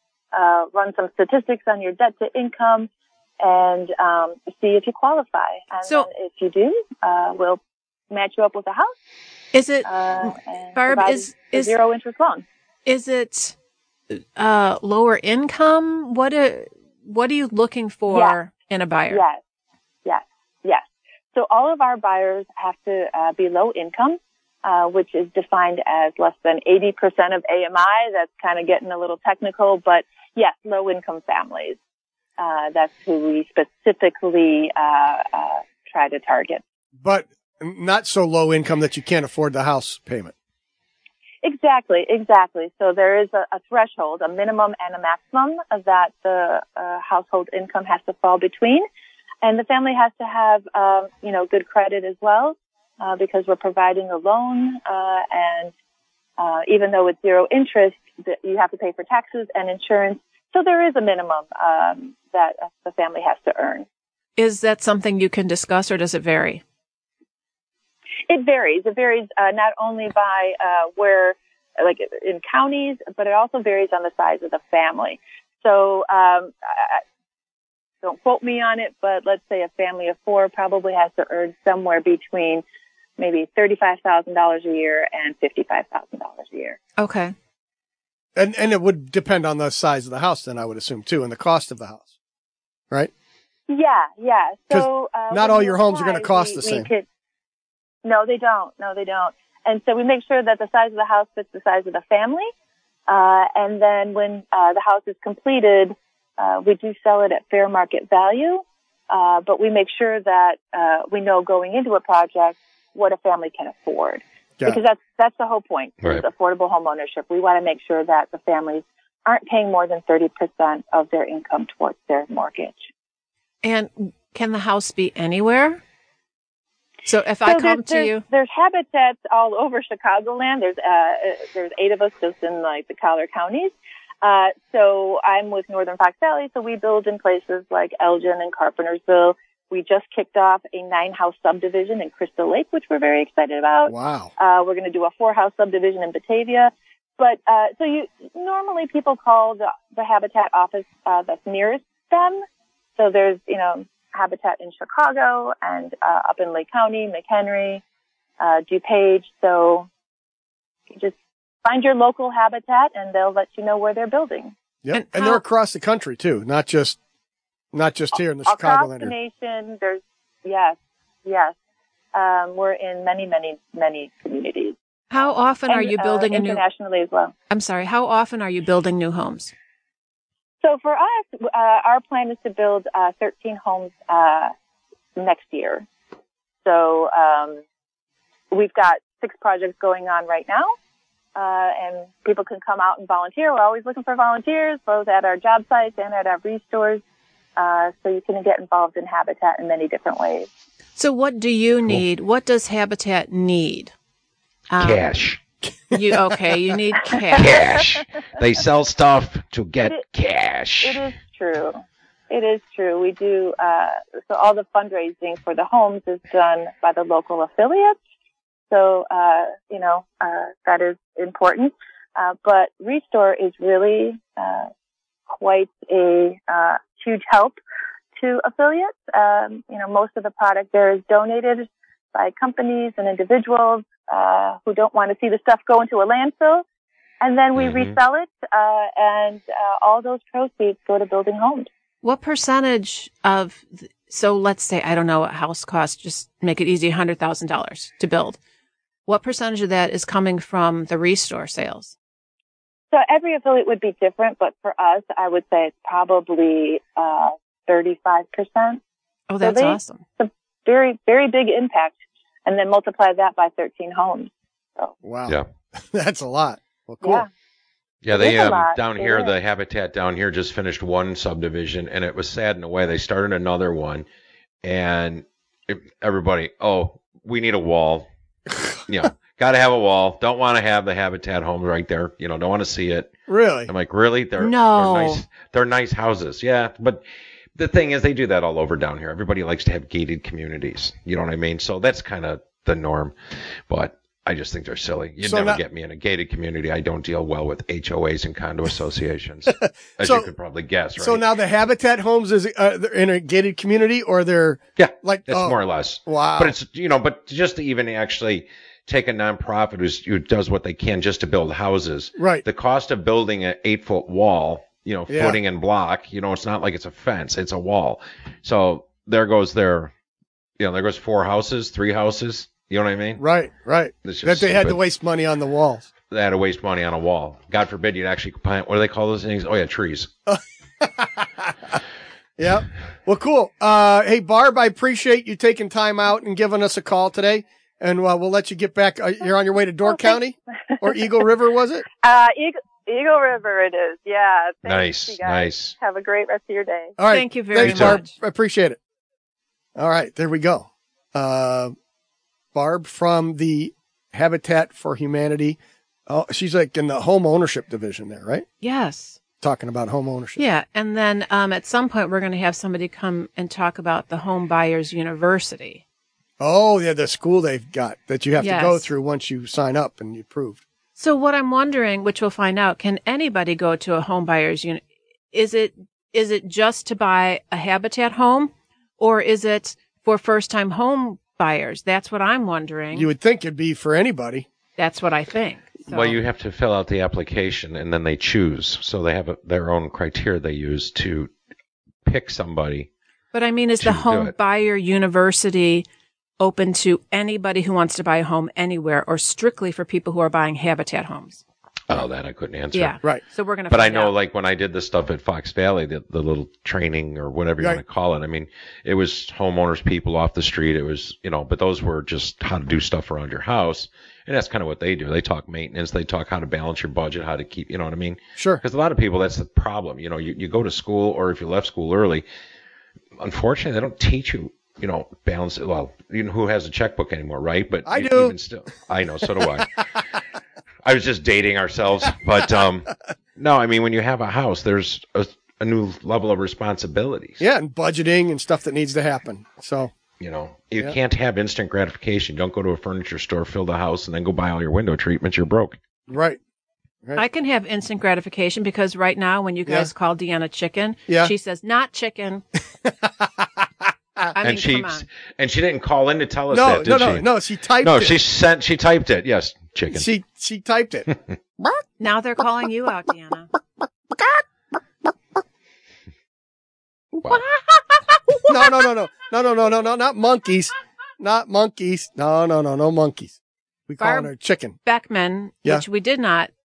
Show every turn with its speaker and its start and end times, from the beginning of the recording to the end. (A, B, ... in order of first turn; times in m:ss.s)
0:00.3-0:08.9 A
0:09.5-0:11.8 B
0:09.8-0:12.4 A
0:12.9-0:13.6 B
0:14.1-0:19.2 B
0:18.1-0:18.4 A
0:19.1-0:19.4 A
0:20.0-0:31.8 A
0:32.4-0:36.6 A
0:37.0-0:40.3 C
0:41.4-0:48.9 A
0:49.4-0:55.7 A
0:56.4-1:03.9 A
1:04.4-1:06.6 B
1:08.3-1:17.0 A
1:18.0-1:22.6 A
1:23.2-1:26.8 A
1:27.0-1:27.3 B
1:28.4-1:32.1 C
1:33.7-1:37.0 A
1:34.7-1:36.9 C
1:38.0-1:42.5 A
1:43.1-2:02.9 A
2:03.6-2:05.8 B
2:07.1-2:08.2 B
2:07.4-2:32.4 A
2:23.9-2:24.3 C
2:33.0-2:37.8 A
2:38.4-2:39.9 A
2:40.9-2:44.6 A
2:44.8-2:47.0 C
2:44.9-2:45.4 B
2:47.7-2:49.1 C
2:48.4-2:51.6 A
2:52.1-2:54.8 A
2:55.1-2:56.6 B
2:55.7-2:57.3 A
2:57.5-2:59.5 B
3:00.6-3:04.5 A
3:05.2-3:05.9 A
3:06.6-3:07.6 A
3:08.5-3:10.7 A
3:11.4-3:17.0 A
3:17.6-3:20.5 A
3:21.0-3:23.9 B
3:24.7-3:25.1 B
3:24.8-3:25.4 D
3:25.9-3:26.2 C
3:25.9-3:27.6 B
3:27.4-3:31.0 D
3:30.8-3:38.0 A
3:38.7-3:44.7 A
3:45.3-3:47.6 A
3:48.2-3:56.6 A
3:57.2-4:01.7 A
3:57.6-3:58.0 D
4:02.0-4:08.4 B
4:09.1-4:12.0 B
4:12.9-4:18.8 A
4:19.3-4:20.0 B
4:19.4-4:25.0 A
4:25.0-4:27.2 C
4:27.0-4:27.3 A
4:28.0-4:34.1 D
4:28.1-4:29.4 A
4:34.6-4:38.1 D
4:38.9-4:43.1 D
4:43.3-4:43.7 C
4:43.7-4:47.0 D
4:44.4-4:45.2 B
4:47.6-4:53.1 D
4:53.7-5:01.3 D
4:55.2-4:55.6 C
4:59.5-5:00.3 C
5:01.0-5:06.6 C
5:04.8-5:19.9 D
5:12.2-5:12.4 C
5:15.1-5:15.4 C
5:20.6-5:23.2 D
5:23.2-5:25.9 C
5:24.0-5:24.8 D
5:26.1-5:30.1 D
5:30.3-5:31.8 C
5:32.4-5:41.8 C
5:39.9-5:40.2 A
5:40.7-5:41.2 A
5:42.0-5:47.0 A
5:44.6-5:45.8 D
5:47.0-5:48.8 C
5:47.1-5:48.1 B
5:47.6-5:48.0 D
5:49.8-5:51.8 C
5:52.5-5:58.5 C
5:58.6-5:59.2 B
5:59.4-6:00.4 C
6:00.4-6:05.8 B
6:06.4-6:10.6 C
6:08.4-6:08.9 B
6:11.0-6:23.1 B
6:22.9-6:24.5 C
6:24.8-6:26.2 B
6:25.9-6:31.3 D
6:32.1-6:32.9 D
6:33.3-6:35.9 B
6:33.8-6:34.3 D
6:36.4-6:41.4 B
6:41.9-6:43.0 D
6:42.7-6:44.1 B
6:43.7-7:02.2 D
6:58.4-6:58.6 C
7:03.2-7:09.8 D
7:07.9-7:08.4 C
7:09.4-7:09.6 C
7:10.8-7:17.4 D
7:17.4-7:19.9 C
7:20.2-7:25.8 D
7:26.1-7:26.4 C
7:27.2-7:32.4 B
7:31.1-7:31.3 C
7:32.8-7:33.7 C
7:34.3-7:35.0 B
7:34.4-7:37.3 D
7:36.5-7:38.2 C
7:37.8-7:40.1 D
7:39.9-7:41.1 C
7:42.0-7:43.5 B
7:44.1-7:44.4 C
7:47.3-7:48.5 B
7:48.5-7:53.4 C
7:53.9-7:54.8 C
7:54.0-7:54.3 B
7:54.8-7:56.5 B